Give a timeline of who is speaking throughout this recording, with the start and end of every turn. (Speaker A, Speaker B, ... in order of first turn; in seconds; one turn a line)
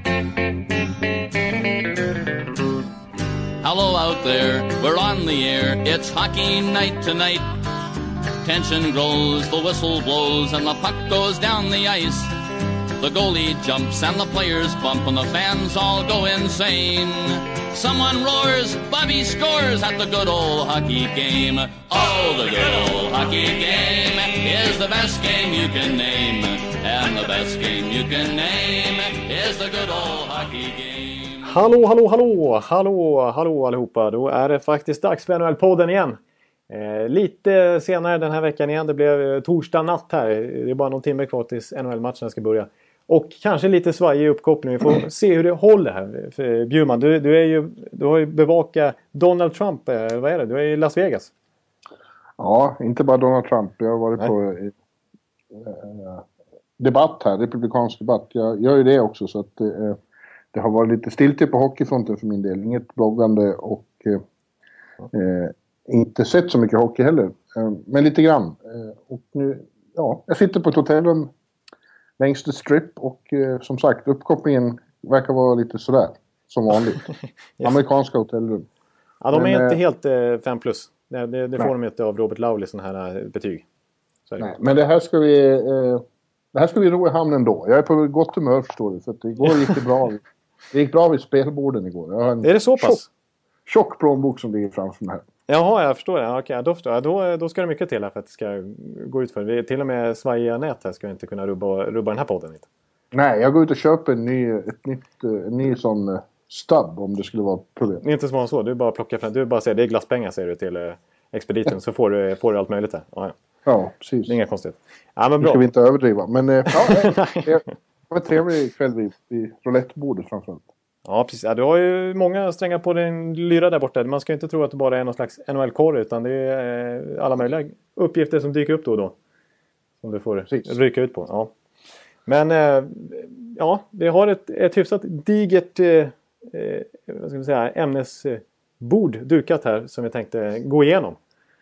Speaker A: 3.6-7.5
Speaker A: 8.4-12.3
Speaker A: 13.0-31.4
Speaker B: 31.4-36.2
Speaker B: 36.7-51.3
Speaker C: 52.4-54.7
Speaker C: 55.5-56.2
Speaker C: 56.8-60.0
Speaker C: 60.5-64.2
Speaker C: 65.1-71.3
Speaker C: 72.2-77.0
Speaker C: 77.6-78.7
Speaker B: 79.2-83.7
Speaker C: 79.3-79.8
Speaker C: 84.4-86.0
Speaker C: 86.5-93.0
Speaker B: 89.5-89.8
Speaker B: 92.4-93.1
Speaker C: 93.7-95.2
Speaker B: 95.5-102.7
Speaker C: 103.1-108.0
Speaker B: 108.0-113.4
Speaker C: 113.7-114.3
Speaker B: 114.3-115.6
Speaker C: 115.4-120.7
Speaker B: 116.7-117.6
Speaker B: 121.1-129.2
Speaker B: 130.0-131.5
Speaker B: 132.2-141.2